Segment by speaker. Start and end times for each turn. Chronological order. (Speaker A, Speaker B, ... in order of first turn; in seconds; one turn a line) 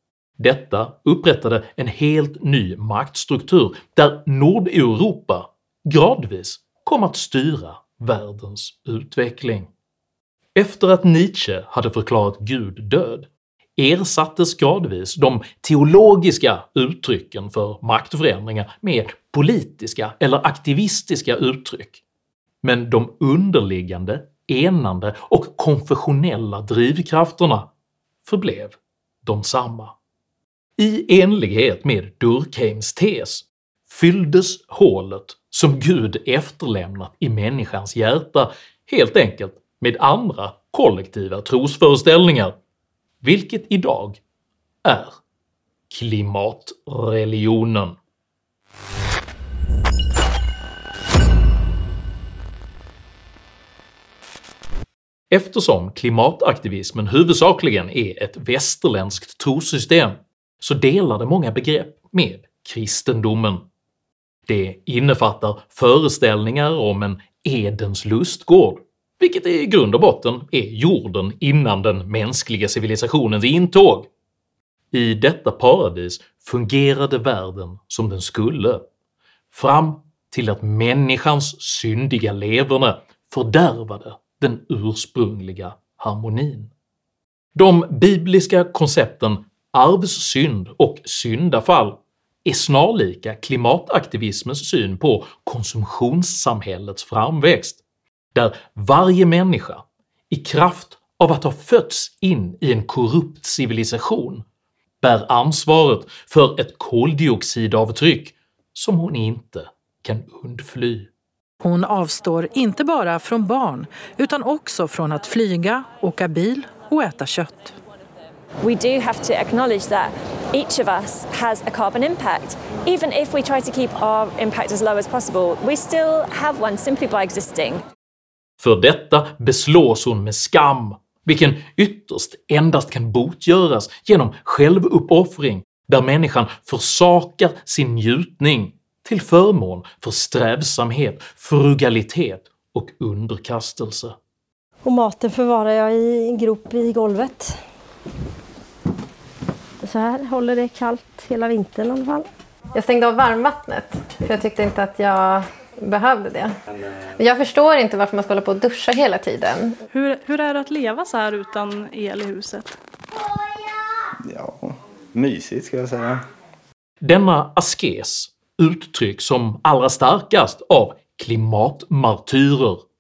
Speaker A: 0.4-9.7
Speaker A: 10.6-22.0
Speaker A: 22.6-27.7
Speaker A: 28.2-29.9
Speaker A: 30.8-42.5
Speaker A: 43.2-44.2
Speaker A: 44.8-45.2
Speaker A: 45.9-48.0
Speaker A: 55.3-63.6
Speaker A: 64.5-74.1
Speaker A: 74.9-78.8
Speaker A: 79.5-86.7
Speaker A: 87.5-97.8
Speaker A: 98.3-104.4
Speaker A: 105.0-111.1
Speaker B: 111.6-117.8
Speaker C: 118.6-127.8
Speaker A: 128.6-144.1
Speaker D: 144.8-147.6
Speaker D: 149.8-152.3
Speaker E: 152.7-156.5
Speaker E: 157.2-159.8
Speaker F: 159.9-162.7
Speaker G: 164.3-166.2
Speaker A: 167.0-172.8